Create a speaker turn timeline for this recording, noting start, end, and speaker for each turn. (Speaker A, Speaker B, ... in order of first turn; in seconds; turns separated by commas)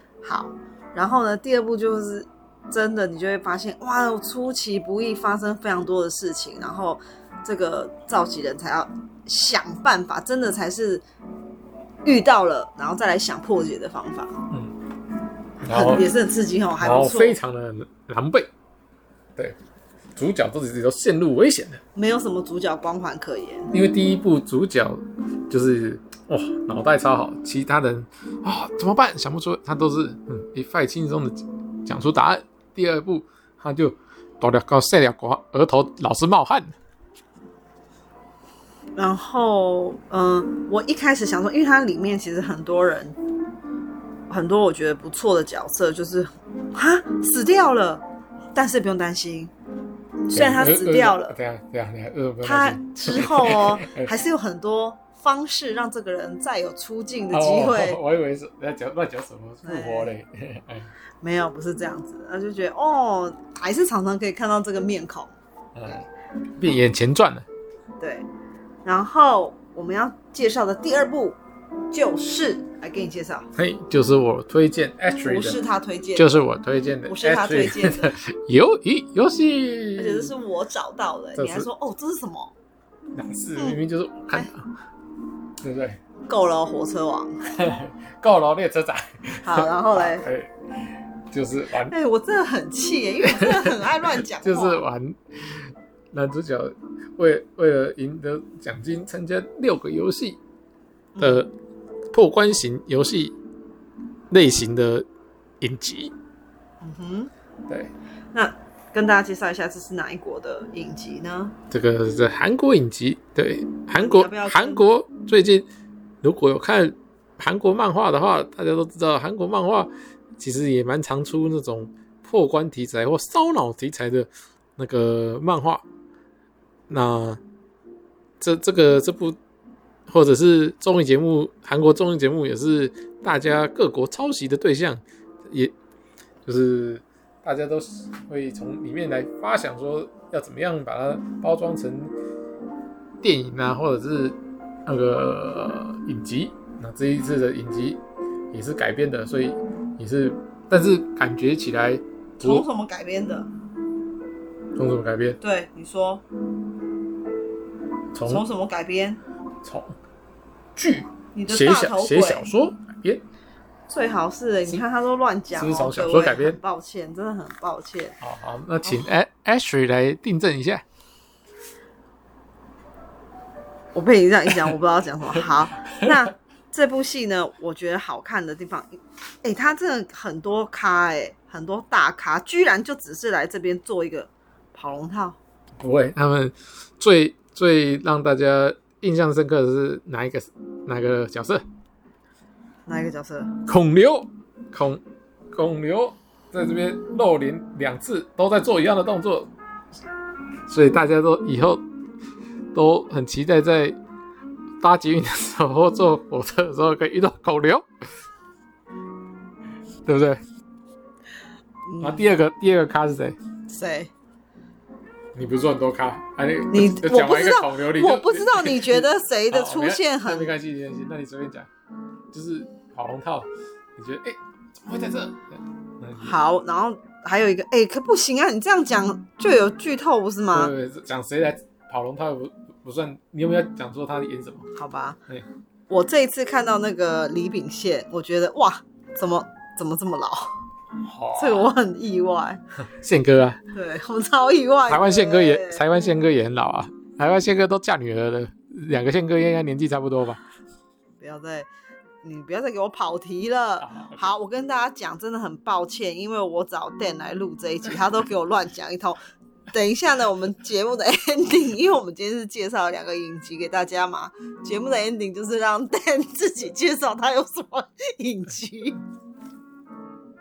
Speaker A: 0.2-11.0, Speaker A: 12.1-14.4, Speaker B: 15.6-16.1, Speaker A: 15.7-17.4, Speaker B: 16.8-18.5, Speaker B: 20.1-21.8, Speaker A: 21.9-23.7, Speaker B: 23.7-36.8, Speaker A: 39.0-43.2, Speaker A: 44.3-48.0, Speaker A: 48.5-49.5, Speaker A: 50.3-51.4, Speaker B: 50.3-54.1, Speaker A: 52.4-58.0, Speaker B: 57.3-60.9, Speaker A: 59.6-60.1, Speaker A: 61.2-65.3, Speaker B: 65.8-66.0, Speaker B: 66.6-67.5, Speaker A: 68.0-68.3, Speaker A: 68.8-71.4, Speaker A: 71.9-73.5, Speaker B: 73.6-75.6, Speaker A: 75.2-76.4, Speaker B: 76.2-80.3, Speaker A: 77.1-78.2, Speaker A: 80.0-82.5, Speaker B: 81.4-81.7, Speaker B: 83.1-84.6, Speaker B: 85.6-86.0, Speaker A: 86.3-87.4, Speaker B: 87.5-90.5, Speaker A: 89.4-90.3, Speaker B: 91.3-91.9, Speaker A: 91.9-94.8, Speaker B: 93.2-100.4, Speaker A: 101.2-101.5, Speaker B: 101.2-101.5, Speaker B: 102.1-103.4, Speaker B: 104.3-105.1, Speaker B: 105.6-106.1, Speaker A: 106.8-107.3, Speaker A: 108.3-111.5, Speaker B: 111.7-115.7, Speaker A: 113.9-114.8, Speaker B: 116.2-125.8, Speaker B: 126.9-127.4, Speaker B: 128.4-129.4, Speaker B: 130.1-135.7, Speaker B: 136.5-142.1, Speaker B: 143.2-148.0, Speaker B: 148.5-152.7, Speaker A: 152.4-153.5, Speaker B: 154.8-155.4, Speaker A: 155.4-156.2, Speaker B: 158.1-158.4, Speaker A: 158.2-159.2, Speaker B: 159.6-159.9, Speaker B: 160.8-163.2, Speaker A: 161.3-162.5, Speaker A: 163.9-168.2, Speaker B: 165.6-166.6, Speaker B: 168.2-170.8, Speaker A: 168.8-169.1, Speaker A: 173.9-185.4, Speaker B: 185.8-191.6, Speaker A: 192.9-193.5, Speaker B: 193.7-195.0, Speaker B: 195.5-199.5, Speaker B: 200.7-201.8, Speaker B: 202.7-204.0, Speaker B: 204.8-207.9, Speaker B: 210.1-210.4, Speaker A: 211.9-212.3, Speaker B: 212.0-213.4, Speaker A: 213.7-214.1, Speaker B: 215.3-221.7, Speaker A: 216.7-220.5, Speaker B: 222.3-226.4, Speaker A: 226.2-230.7, Speaker B: 230.5-234.7, Speaker A: 234.8-235.2, Speaker A: 235.9-240.6, Speaker B: 241.0-241.7, Speaker A: 241.4-242.6, Speaker B: 242.8-243.6, Speaker A: 243.7-246.1, Speaker B: 244.9-250.4, Speaker A: 251.2-251.7, Speaker A: 252.2-259.2, Speaker B: 253.8-254.3, Speaker A: 259.7-269.0